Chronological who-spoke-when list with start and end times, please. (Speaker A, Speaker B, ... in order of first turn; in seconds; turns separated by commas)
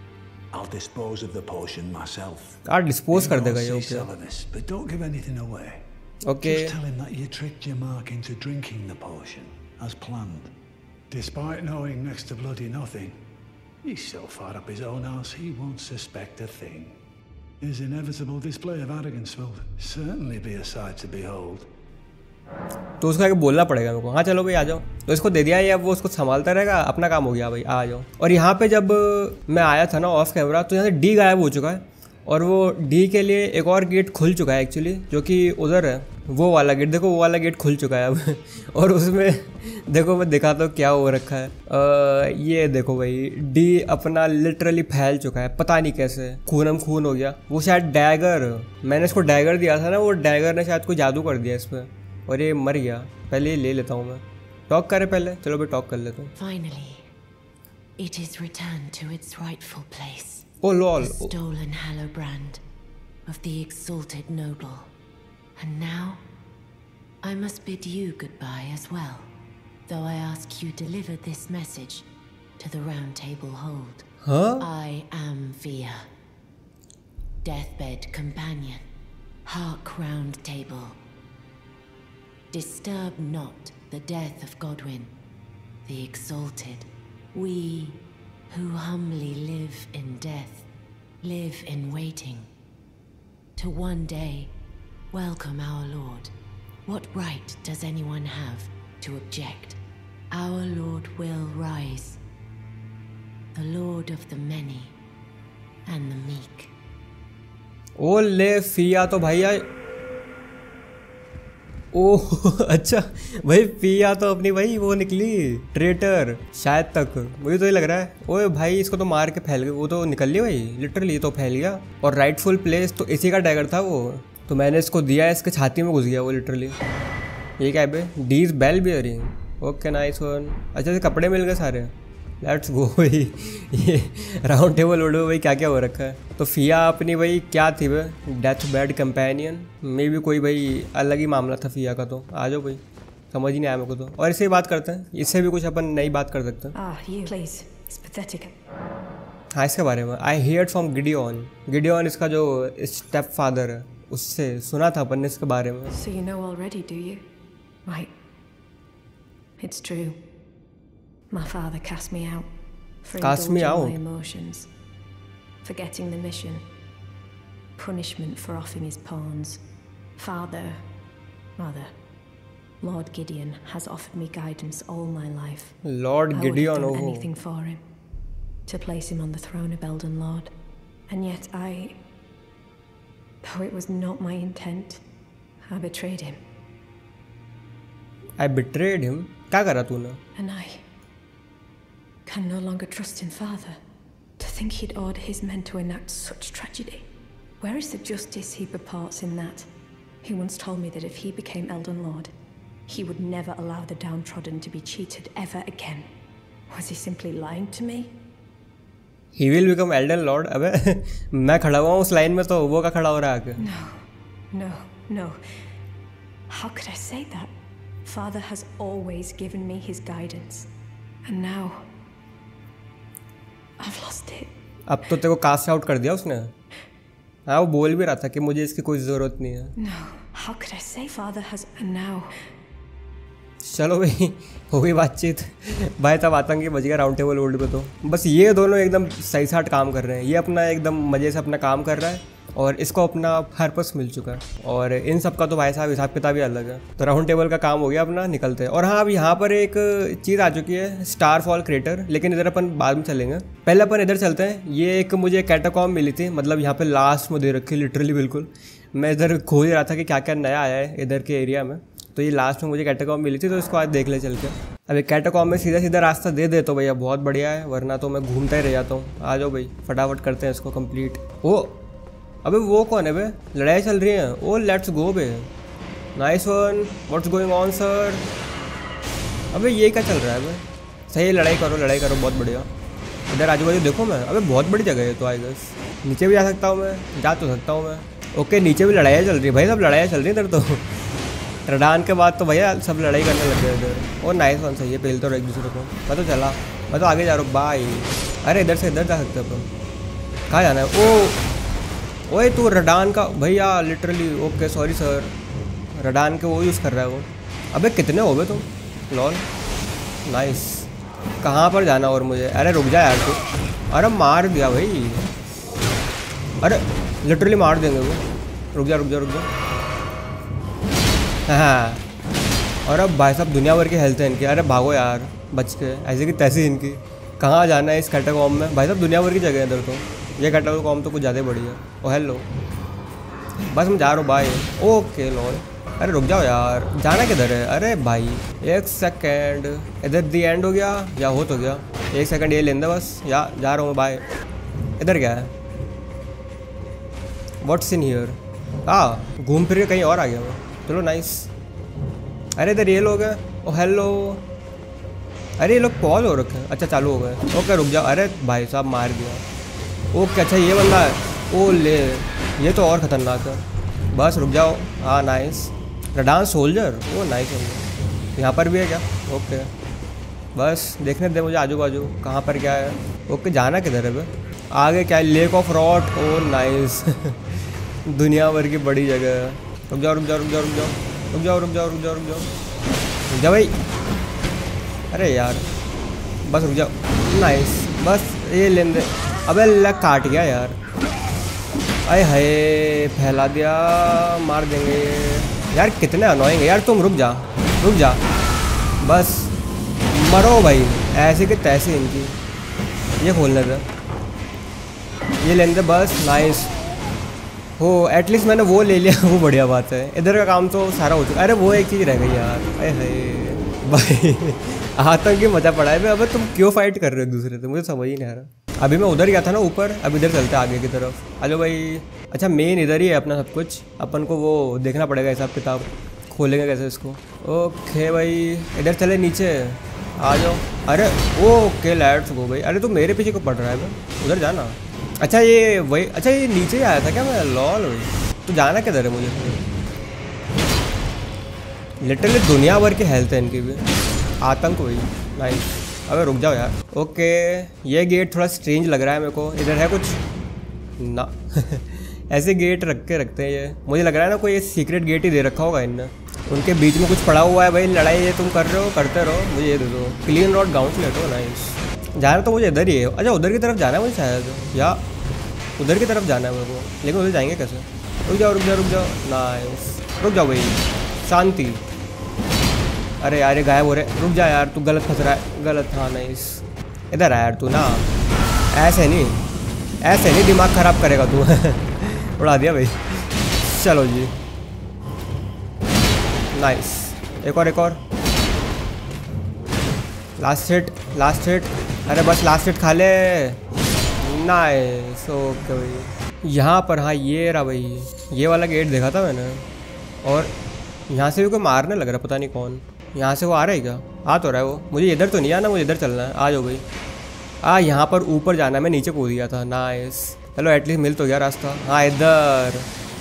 Speaker A: 0.5-5.8, Speaker B: 2.7-4.1, Speaker B: 6.2-6.7, Speaker A: 6.4-10.5, Speaker A: 11.1-13.2, Speaker A: 13.8-17.0, Speaker A: 17.6-21.7, Speaker B: 23.0-56.3, Speaker C: 56.4-57.1, Speaker C: 58.0-60.5, Speaker B: 60.6-61.3, Speaker C: 61.0-62.6, Speaker C: 63.3-64.9, Speaker C: 65.6-66.2, Speaker C: 67.2-69.3, Speaker C: 69.9-72.1, Speaker C: 72.6-74.1, Speaker B: 74.2-74.7, Speaker C: 74.6-76.0, Speaker C: 77.4-78.9, Speaker C: 79.5-81.0, Speaker C: 82.5-85.1, Speaker C: 85.9-90.7, Speaker C: 91.2-92.5, Speaker C: 93.6-94.5, Speaker C: 95.1-96.3, Speaker C: 96.9-99.8, Speaker C: 100.3-102.2, Speaker C: 103.5-104.9, Speaker C: 105.9-106.7, Speaker B: 108.0-109.7, Speaker B: 111.9-126.8, Speaker B: 127.6-146.8, Speaker D: 146.8-148.6, Speaker B: 149.5-156.0, Speaker D: 155.9-157.2, Speaker D: 157.9-158.1, Speaker D: 159.6-160.2, Speaker D: 161.3-162.5, Speaker D: 163.0-164.7, Speaker B: 163.2-164.0, Speaker D: 165.6-166.7, Speaker D: 167.8-169.6, Speaker D: 170.2-170.8, Speaker D: 171.6-171.9, Speaker D: 172.8-175.8, Speaker B: 175.8-177.3, Speaker D: 176.3-177.8, Speaker D: 178.7-180.5, Speaker D: 181.1-182.0, Speaker D: 183.4-185.0, Speaker D: 185.7-186.4, Speaker B: 188.4-190.2, Speaker D: 190.3-190.8, Speaker D: 192.3-193.8, Speaker D: 194.4-197.1, Speaker D: 197.6-199.7, Speaker D: 200.2-202.3, Speaker D: 202.9-206.1, Speaker D: 206.7-208.1, Speaker B: 209.3-213.6, Speaker D: 213.6-215.6, Speaker D: 216.5-217.5, Speaker D: 218.1-220.7, Speaker D: 221.3-221.9, Speaker D: 223.8-224.5, Speaker B: 224.9-226.5, Speaker B: 227.5-229.7, Speaker D: 229.8-232.5, Speaker B: 233.6-271.8, Speaker B: 272.4-275.5, Speaker B: 276.1-278.3, Speaker B: 279.5-282.7, Speaker B: 283.3-290.9, Speaker B: 291.7-299.7, Speaker B: 300.5-301.4, Speaker B: 302.3-305.4, Speaker B: 305.9-309.4, Speaker B: 310.2-310.9, Speaker B: 311.4-315.3, Speaker B: 316.6-318.2, Speaker B: 318.7-319.5, Speaker B: 321.5-322.0, Speaker B: 322.9-332.5, Speaker B: 333.6-344.3, Speaker B: 345.0-345.5, Speaker B: 347.6-351.5, Speaker B: 352.6-354.5, Speaker B: 355.6-359.4, Speaker B: 360.1-369.7, Speaker B: 370.6-382.5, Speaker B: 383.3-383.8, Speaker B: 385.1-385.7, Speaker B: 386.4-390.8, Speaker B: 392.1-398.2, Speaker B: 399.0-399.5, Speaker B: 400.1-402.4, Speaker B: 403.2-403.9, Speaker B: 405.4-406.8, Speaker B: 407.8-439.6, Speaker B: 442.0-443.9, Speaker B: 444.4-450.2, Speaker B: 451.0-465.0, Speaker B: 465.8-471.8, Speaker B: 473.2-478.1, Speaker B: 478.7-479.4, Speaker B: 480.0-484.3, Speaker B: 486.5-488.0, Speaker B: 490.4-493.6, Speaker B: 494.2-499.7, Speaker B: 500.2-500.5, Speaker B: 501.1-506.9, Speaker B: 507.6-512.9